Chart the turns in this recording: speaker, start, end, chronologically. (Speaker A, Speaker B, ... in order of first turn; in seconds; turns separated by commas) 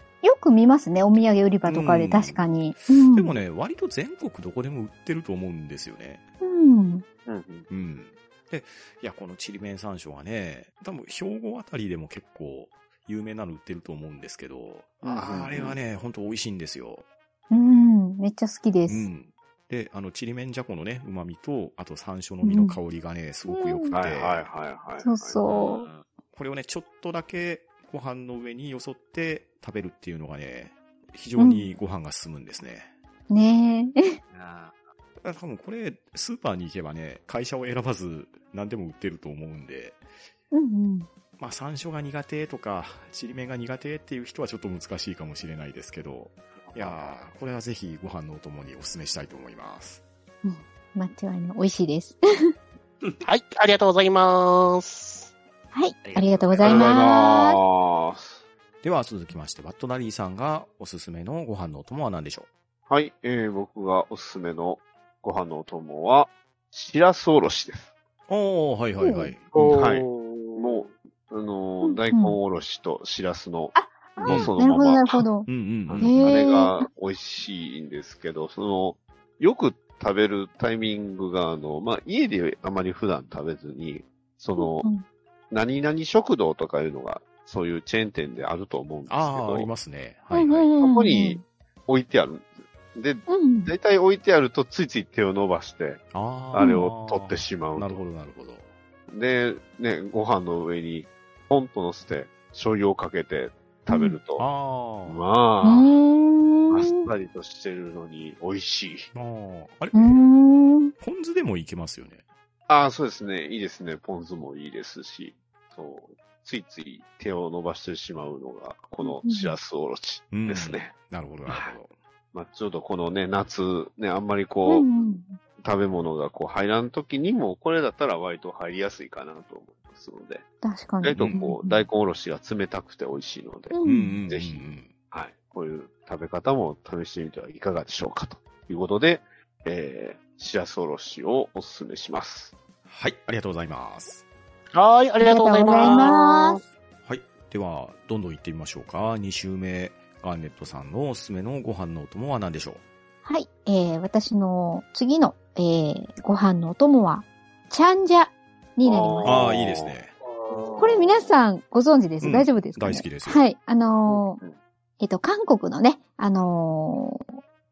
Speaker A: 0.2-3.3, Speaker B: 1.6-6.2, Speaker A: 6.4-7.0, Speaker C: 7.2-7.7, Speaker B: 7.7-17.0, Speaker C: 15.0-15.8, Speaker A: 17.5-19.1, Speaker B: 18.9-24.5, Speaker A: 22.4-22.8, Speaker A: 23.5-23.9, Speaker C: 23.9-25.9, Speaker A: 25.0-25.8, Speaker D: 25.4-26.1, Speaker B: 26.3-32.9, Speaker A: 31.4-31.7, Speaker A: 33.3-34.1, Speaker D: 34.3-34.9, Speaker B: 35.2-40.0, Speaker A: 40.5-41.1, Speaker B: 41.4-50.0, Speaker C: 46.7-47.0, Speaker A: 50.4-52.2, Speaker E: 53.2-55.3, Speaker A: 55.7-57.6, Speaker D: 56.0-56.9, Speaker C: 56.6-58.4, Speaker B: 58.8-62.5, Speaker C: 62.9-67.9, Speaker B: 68.3-69.5, Speaker A: 69.0-69.3, Speaker E: 69.5-70.9, Speaker C: 69.5-75.2, Speaker A: 71.8-72.4, Speaker A: 73.7-75.5, Speaker B: 74.2-74.5, Speaker B: 75.5-76.4, Speaker C: 75.9-84.9, Speaker A: 76.0-76.9, Speaker A: 84.6-85.0, Speaker C: 85.5-89.7, Speaker B: 89.1-90.7, Speaker A: 90.3-91.4, Speaker C: 90.8-98.0, Speaker A: 93.3-93.7, Speaker B: 96.1-98.7, Speaker A: 96.6-96.8, Speaker C: 99.1-104.5, Speaker A: 103.9-104.2, Speaker B: 104.4-105.2, Speaker C: 105.0-105.9, Speaker A: 105.6-107.1, Speaker C: 106.7-109.1, Speaker B: 109.1-110.2, Speaker A: 109.9-110.9, Speaker B: 111.0-112.2, Speaker C: 112.7-121.0, Speaker A: 119.0-119.6, Speaker B: 120.3-121.9, Speaker C: 121.5-121.8, Speaker C: 122.3-124.9, Speaker A: 124.7-125.4, Speaker C: 125.6-130.4, Speaker A: 130.6-131.8, Speaker C: 131.0-133.8, Speaker B: 131.1-131.4, Speaker A: 133.7-134.2, Speaker B: 133.8-134.9, Speaker C: 134.3-142.5, Speaker B: 142.8-144.2, Speaker E: 144.7-146.6, Speaker A: 145.2-146.6, Speaker B: 147.0-152.8, Speaker A: 153.2-159.4, Speaker C: 158.8-161.3, Speaker B: 159.2-160.1, Speaker E: 160.5-160.8, Speaker A: 160.8-164.4, Speaker B: 162.2-163.4, Speaker C: 164.1-164.6, Speaker A: 165.0-167.3